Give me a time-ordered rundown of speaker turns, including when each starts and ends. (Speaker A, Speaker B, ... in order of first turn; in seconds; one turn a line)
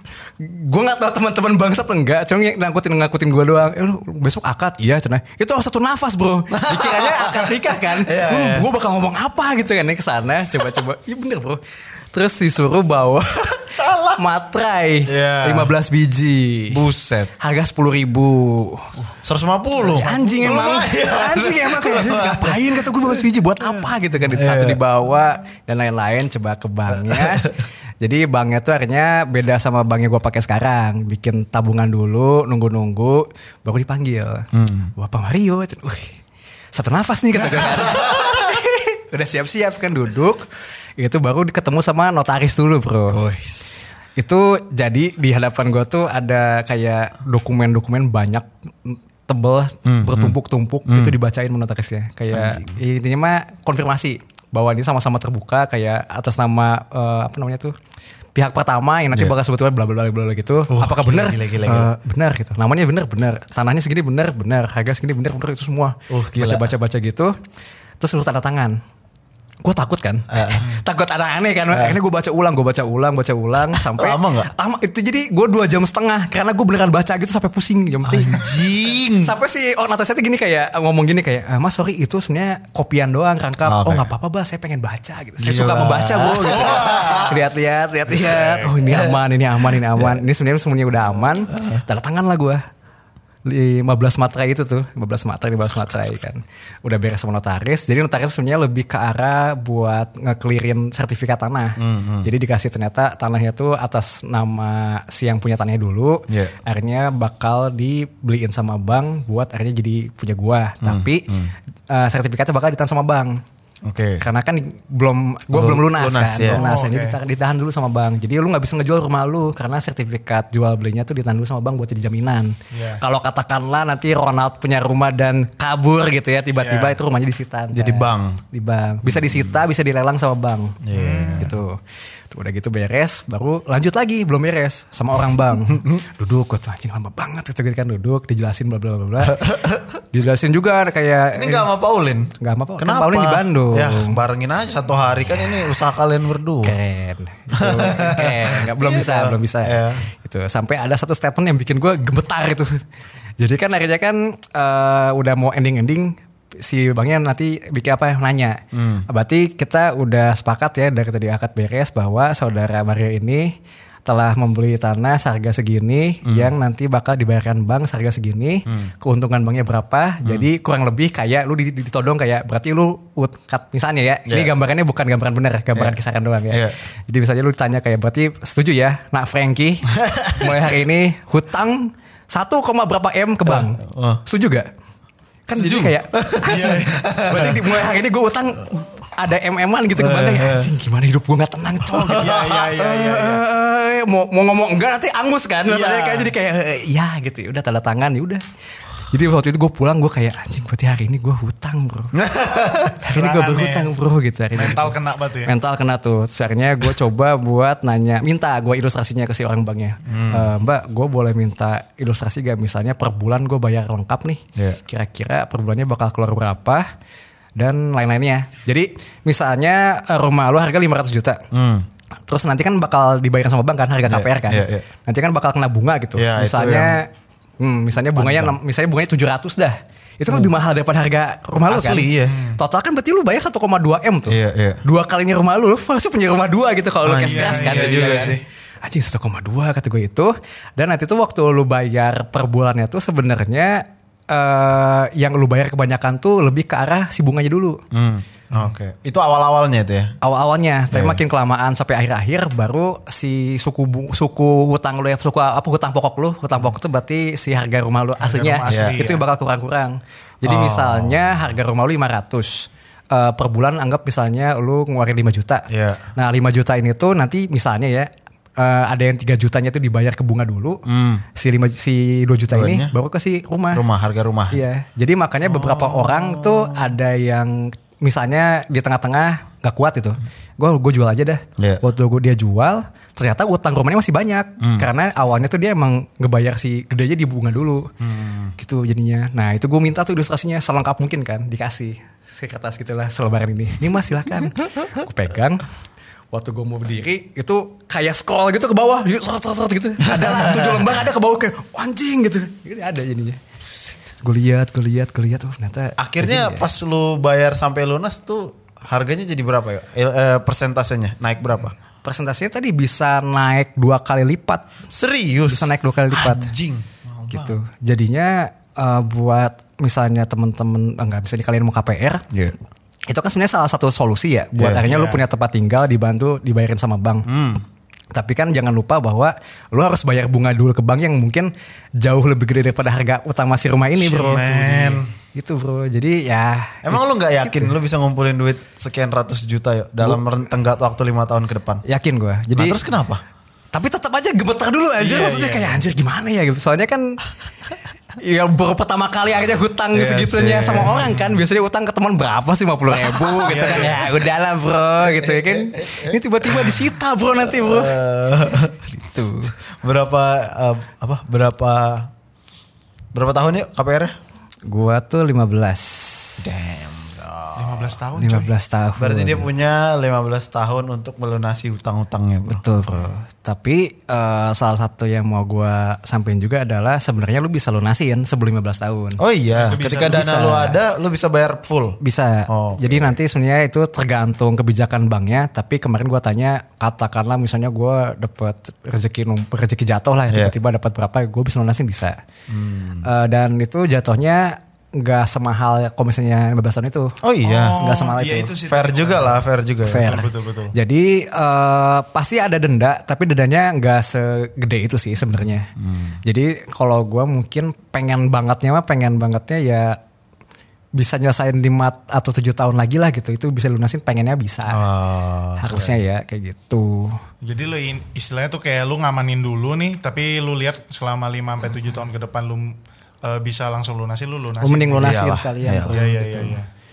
Speaker A: 0.4-11.6
Speaker B: 6.5-8.7
Speaker A: 12.1-16.8
Speaker B: 13.7-14.2
Speaker B: 15.1-15.7
Speaker B: 16.7-17.3
Speaker A: 17.4-18.9
Speaker B: 19.2-23.2
Speaker A: 19.8-36.2
Speaker C: 19.9-20.2
Speaker B: 24.3-24.8
Speaker B: 26.9-27.5
Speaker B: 34.5-34.9
Speaker A: 36.7-40.5
Speaker B: 37.6-38.3
Speaker A: 41.0-43.2
Speaker B: 43.1-43.8
Speaker A: 44.1-57.7
Speaker B: 49.8-50.4
Speaker B: 50.9-51.1
Speaker B: 52.3-52.8
Speaker A: 58.3-67.3
Speaker B: 60.7-61.5
Speaker C: 60.8-61.9
Speaker B: 66.1-66.7
Speaker A: 68.0-68.8
Speaker A: 69.6-92.6
Speaker B: 70.3-70.7
Speaker B: 71.7-72.0
Speaker B: 73.7-74.5
Speaker B: 78.0-79.3
Speaker B: 83.6-84.1
Speaker B: 85.4-87.4
Speaker C: 86.5-87.3
Speaker C: 88.1-88.7
Speaker B: 88.4-90.2
Speaker B: 91.5-91.8
Speaker A: 93.5-111.3
Speaker B: 101.8-102.3
Speaker B: 110.8-111.5
Speaker A: 111.9-113.4
Speaker B: 113.8-114.2
Speaker A: 114.2-130.8
Speaker B: 115.5-116.6
Speaker C: 116.5-117.2
Speaker C: 122.7-123.0
Speaker C: 126.6-127.0
Speaker B: 127.7-128.4
Speaker B: 129.0-129.6
Speaker B: 130.8-131.6
Speaker C: 130.9-131.6
Speaker A: 131.3-131.8
Speaker A: 132.3-139.5
Speaker B: 135.7-136.0
Speaker B: 139.2-140.0
Speaker A: 140.1-141.7
Speaker B: 141.3-146.7
Speaker A: 142.4-144.2
Speaker A: 146.6-152.8
Speaker B: 147.5-150.0
Speaker A: 153.4-163.5
Speaker B: 158.7-159.0
Speaker A: 164.1-184.7
Speaker B: 166.2-166.5
Speaker B: 175.7-176.0
Speaker B: 179.9-180.6
Speaker B: 183.4-184.2
Speaker A: 185.5-198.4
Speaker B: 185.5-187.8
Speaker C: 186.5-187.0
Speaker B: 189.9-190.7
Speaker B: 191.8-192.6
Speaker C: 192.2-193.4
Speaker C: 195.7-196.3
Speaker A: 199.1-202.1
Speaker B: 202.1-203.1
Speaker A: 203.1-216.8
Speaker C: 203.1-203.9
Speaker C: 204.5-205.5
Speaker B: 210.1-210.5
Speaker A: 217.6-221.4
Speaker B: 221.5-221.8
Speaker A: 222.3-227.1
Speaker B: 224.1-224.8
Speaker B: 226.1-227.0
Speaker A: 227.6-247.8
Speaker B: 228.1-228.6
Speaker B: 230.3-230.5
Speaker B: 231.7-232.3
Speaker C: 232.3-232.6
Speaker B: 234.3-234.8
Speaker B: 237.0-238.4
Speaker C: 237.2-238.3
Speaker B: 247.9-250.1
Speaker A: 250.2-270.8
Speaker B: 250.9-251.2
Speaker C: 258.2-259.2
Speaker B: 258.7-258.9
Speaker B: 260.4-261.5
Speaker B: 265.7-266.1
Speaker B: 270.9-271.2
Speaker A: 271.3-273.8
Speaker B: 272.5-272.9
Speaker B: 273.7-274.6
Speaker A: 274.5-287.9
Speaker B: 275.4-276.9
Speaker B: 284.6-284.9
Speaker B: 288.0-288.5
Speaker A: 288.6-295.6
Speaker A: 296.3-303.4
Speaker B: 300.0-301.0
Speaker A: 304.1-306.6
Speaker B: 306.0-311.8
Speaker A: 312.0-314.7
Speaker B: 314.9-317.6
Speaker A: 315.5-316.5
Speaker A: 317.3-322.3
Speaker A: 323.1-327.3
Speaker B: 324.6-325.2
Speaker B: 327.2-327.6
Speaker A: 328.1-334.8
Speaker B: 334.0-335.1
Speaker C: 334.5-334.9
Speaker A: 335.3-337.7
Speaker B: 336.8-341.8
Speaker A: 341.8-342.8
Speaker B: 342.5-343.2
Speaker A: 343.7-347.2
Speaker C: 345.0-345.8
Speaker A: 348.2-358.0
Speaker B: 349.9-351.1
Speaker C: 350.9-351.4
Speaker B: 352.9-354.1
Speaker C: 353.5-354.0
Speaker B: 355.0-356.9
Speaker B: 357.4-362.1
Speaker A: 358.9-359.5
Speaker B: 363.1-364.1
Speaker A: 364.7-366.4
Speaker B: 366.4-368.0
Speaker C: 367.6-368.5
Speaker A: 368.1-369.5
Speaker B: 369.0-373.0
Speaker A: 372.4-379.2
Speaker B: 379.2-383.2
Speaker C: 379.5-380.3
Speaker A: 379.9-380.8
Speaker A: 382.0-392.2
Speaker B: 392.5-393.1
Speaker A: 393.0-398.5
Speaker B: 397.2-397.8
Speaker C: 397.4-399.4
Speaker B: 398.6-400.3
Speaker A: 399.8-405.7
Speaker C: 400.0-400.7
Speaker B: 405.8-406.2
Speaker A: 406.2-410.0
Speaker A: 410.9-414.8
Speaker B: 414.7-416.0
Speaker A: 415.6-417.2
Speaker C: 417.4-425.1
Speaker A: 424.6-426.6
Speaker B: 425.0-426.6
Speaker C: 425.9-426.7